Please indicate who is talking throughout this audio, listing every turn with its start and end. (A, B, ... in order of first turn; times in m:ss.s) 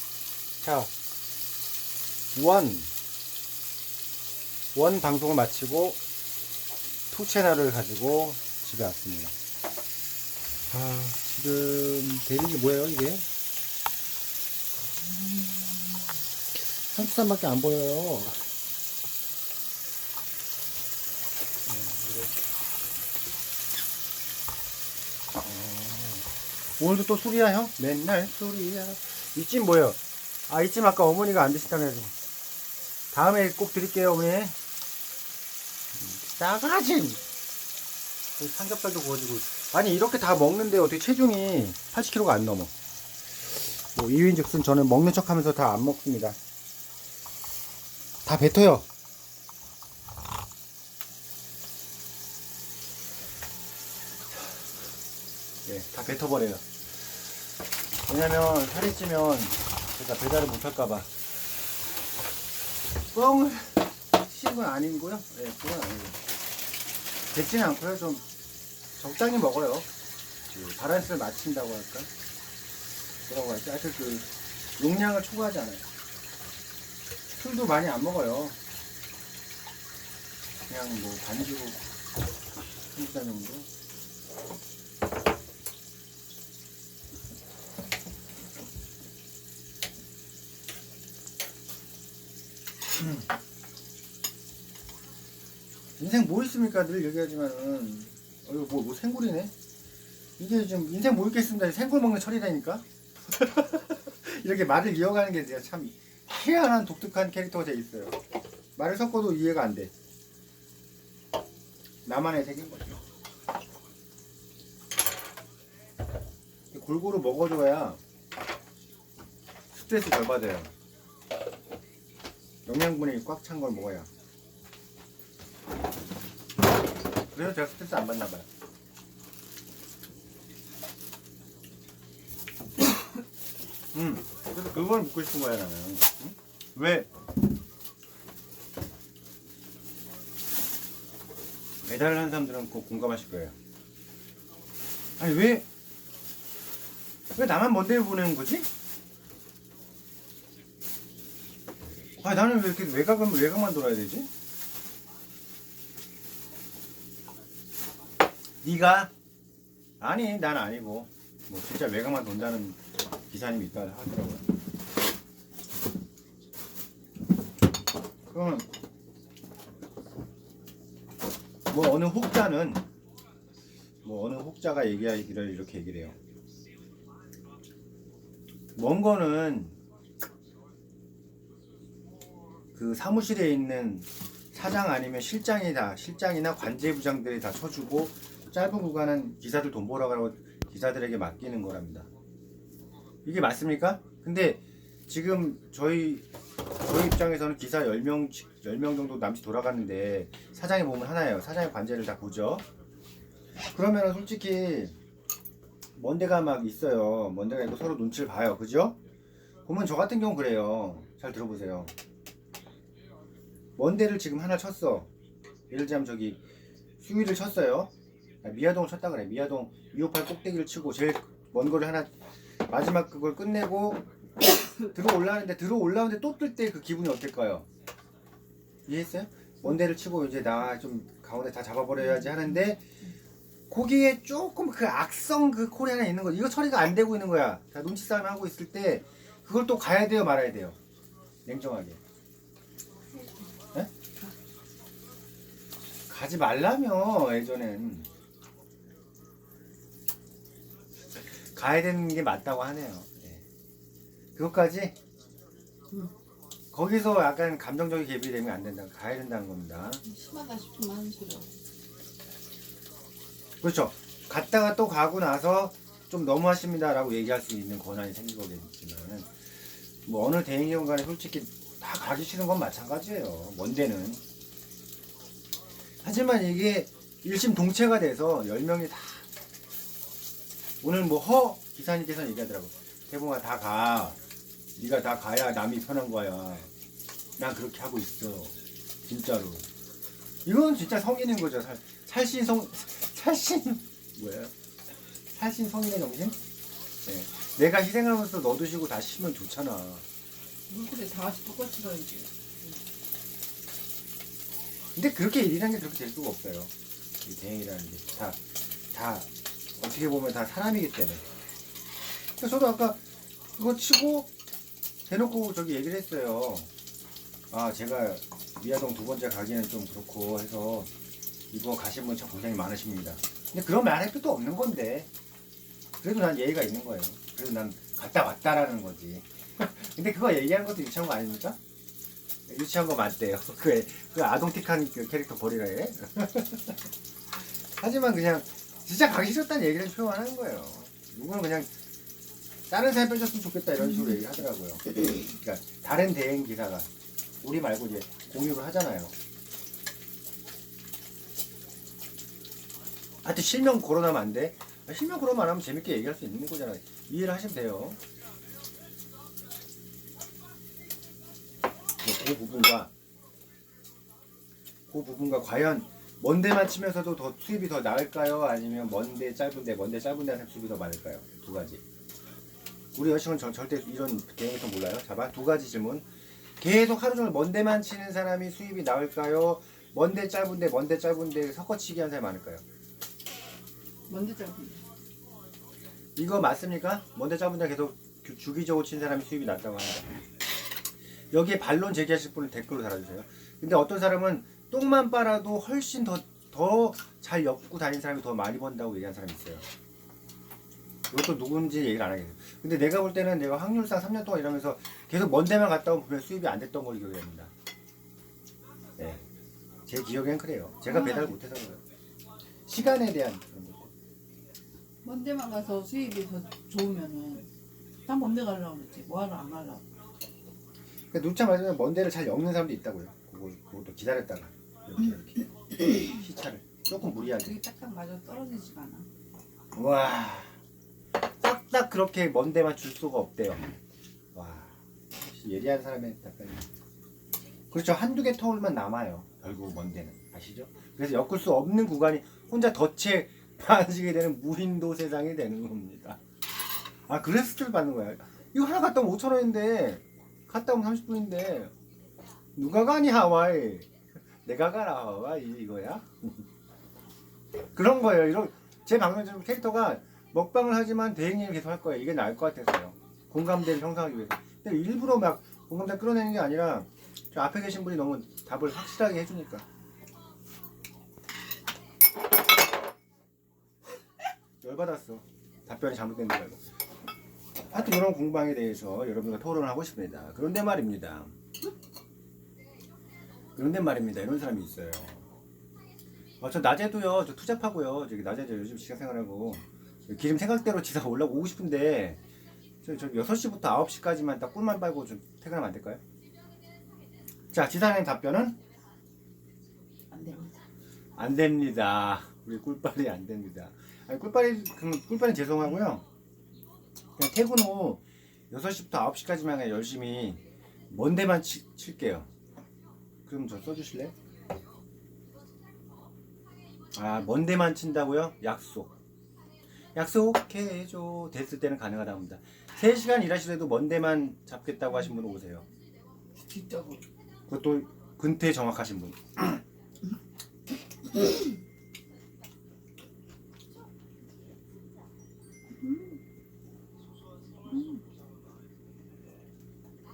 0:00.6-0:00.9 A
0:02.3-0:02.9 A
0:04.7-0:06.0 A
0:07.1-0:09.3 A
0:10.7-0:13.2 A
0:15.0-0:16.1 A
0:16.9-0:18.4 A
0:21.7-0:22.3 A
0:25.3-0:26.2 A
0:26.8-0:32.1 A
0:33.1-0:34.5 A
0:35.9-0:37.2 A
0:38.4-0:42.7 A
0:43.8-0:46.4 A
0:48.2-0:48.8 A
0:55.6-0:56.6 A
0:58.1-1:01.1 A
1:03.1-1:06.2 A
1:07.3-1:08.2 A
1:09.0-1:09.9 A
1:10.5-1:12.1 A
1:13.2-1:15.8 A
1:17.3-1:18.6 A
1:20.7-1:21.8 A
1:22.9-1:23.7 A
1:36.0-1:39.5 A
1:40.4-1:48.2 A
1:48.8-1:49.9 A
1:52.0-1:53.0 A
1:56.7-1:58.0 A
1:59.7-2:00.7 A
2:02.6-2:04.1 A
2:07.3-2:08.4 A
2:13.9-2:17.1 A
2:21.8-2:23.6 A
2:25.2-2:25.6 A
2:27.3-2:28.7 A
2:32.2-2:34.3 A
2:38.6-2:39.1 A
2:40.0-2:44.4 A
2:48.3-2:48.7 A
2:51.7-2:52.8 A
2:54.0-2:56.1 A
2:58.8-2:59.8 A
3:02.7-3:12.1 A
3:13.2-3:16.2 A
3:16.8-3:22.6 A
3:23.7-3:25.0 A
3:26.0-3:29.0 A
3:29.6-3:31.9 A
3:33.8-3:35.1 A
3:35.7-3:36.4 A
3:37.0-3:37.9 A
3:38.4-3:42.1 A
3:42.6-3:44.0 A
3:44.8-3:47.7 A
3:48.9-3:52.8 A
3:53.7-4:00.8 A
4:01.4-4:02.0 A
4:03.1-4:03.4 B
4:06.1-4:08.1 A
4:11.4-4:13.4 A
4:14.4-4:15.0 A
4:16.7-4:20.0 A
4:20.0-4:21.5 B
4:23.6-4:29.3 A
4:30.0-4:34.2 A
4:36.0-4:39.3 A
4:40.8-4:44.2 A
4:44.8-4:46.7 A
4:47.4-4:48.5 A
4:49.0-4:49.6 A
4:50.4-4:54.5 A
4:55.3-4:56.4 A
4:57.0-5:00.0 A
5:00.7-5:02.8 B
5:04.9-5:06.7 A
5:07.2-5:08.4 A
5:08.9-5:11.2 A
5:12.4-5:13.0 A
5:13.6-5:14.3 A
5:15.1-5:16.7 A
5:17.5-5:20.9 A
5:21.5-5:25.1 A
5:26.0-5:31.6 A
5:32.5-5:36.8 A
5:37.8-5:41.7 A
5:42.7-5:46.9 A
5:47.4-5:49.1 A
5:53.2-5:58.0 A
6:02.0-6:02.9 A
6:04.9-6:11.8 A
6:12.9-6:16.0 A
6:16.6-6:22.6 A
6:24.1-6:24.8 B
6:26.2-6:30.2 A
6:31.3-6:39.6 A
6:41.1-6:47.5 A
6:49.0-6:49.2 A
6:49.9-6:51.8 A
6:50.9-6:51.3 B
6:52.7-6:53.9 A
6:55.0-6:57.5 B
6:58.0-6:59.8 B
7:01.1-7:07.6 A
7:07.0-7:09.1 B
7:09.7-7:10.6 A
7:11.4-7:13.7 A
7:14.3-7:16.6 A
7:17.7-7:26.2 A
7:27.1-7:31.7 A
7:32.6-7:33.9 A
7:34.4-7:36.4 A
7:37.7-7:49.6 A
7:54.6-7:56.6 A
7:57.7-8:01.3 A
8:03.6-8:05.2 A
8:06.4-8:12.2 A
8:12.8-8:16.0 A
8:17.5-8:18.6 A
8:20.1-8:20.5 B
8:21.2-8:26.0 A
8:27.2-8:32.3 A
8:33.2-8:34.1 A
8:36.9-8:38.9 A
8:39.9-8:45.6 A
8:46.4-8:47.0 B
8:47.5-8:49.6 A
8:55.7-8:56.2 B
8:57.6-8:58.0 B